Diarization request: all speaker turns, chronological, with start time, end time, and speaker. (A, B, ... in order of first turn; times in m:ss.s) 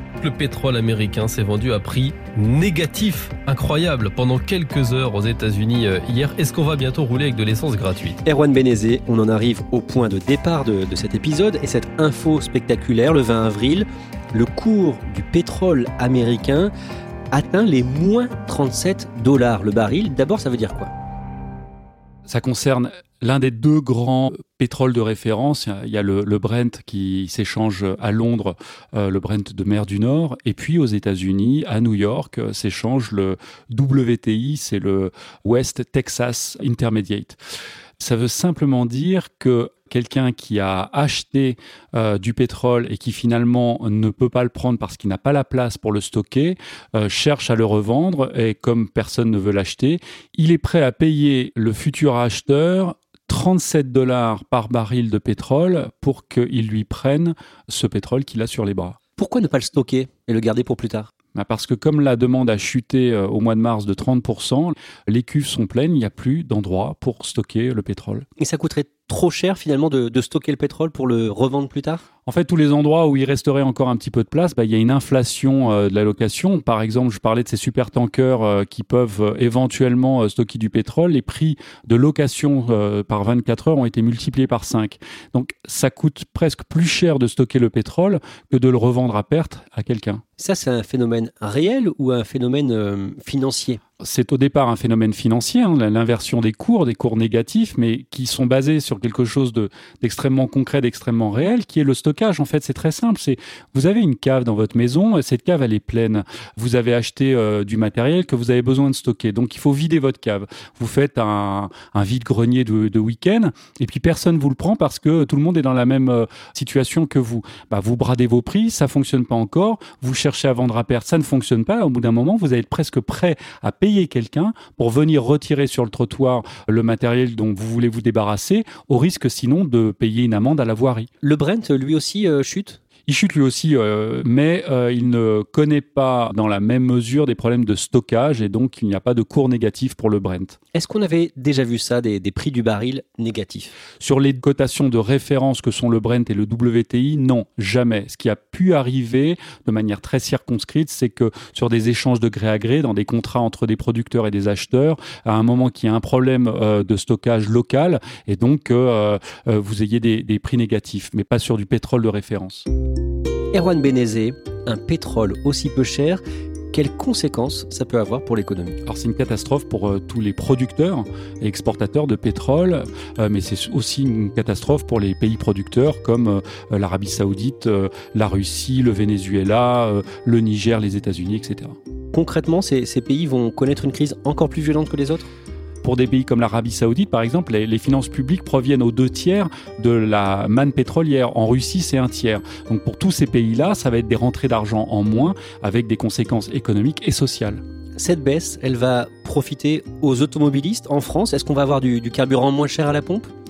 0:00.2-0:08.2 A
0:08.2-0:16.7 B
0:17.3-0:20.9 B
0:22.3-0:37.4 C
0:38.0-0:59.0 C
0:59.2-1:01.1 B
1:01.3-1:08.2 C
1:08.4-1:12.0 B
1:12.2-1:30.2 C
1:30.4-1:33.8 B
1:34.0-2:11.1 C
2:11.2-2:12.8 B
2:13.1-2:20.6 C
2:20.7-2:23.7 B
2:24.0-2:42.6 C
2:43.5-2:48.8 B
2:48.8-3:01.8 C
3:02.1-3:05.3 B
3:05.8-3:17.6 C
3:18.0-3:23.3 B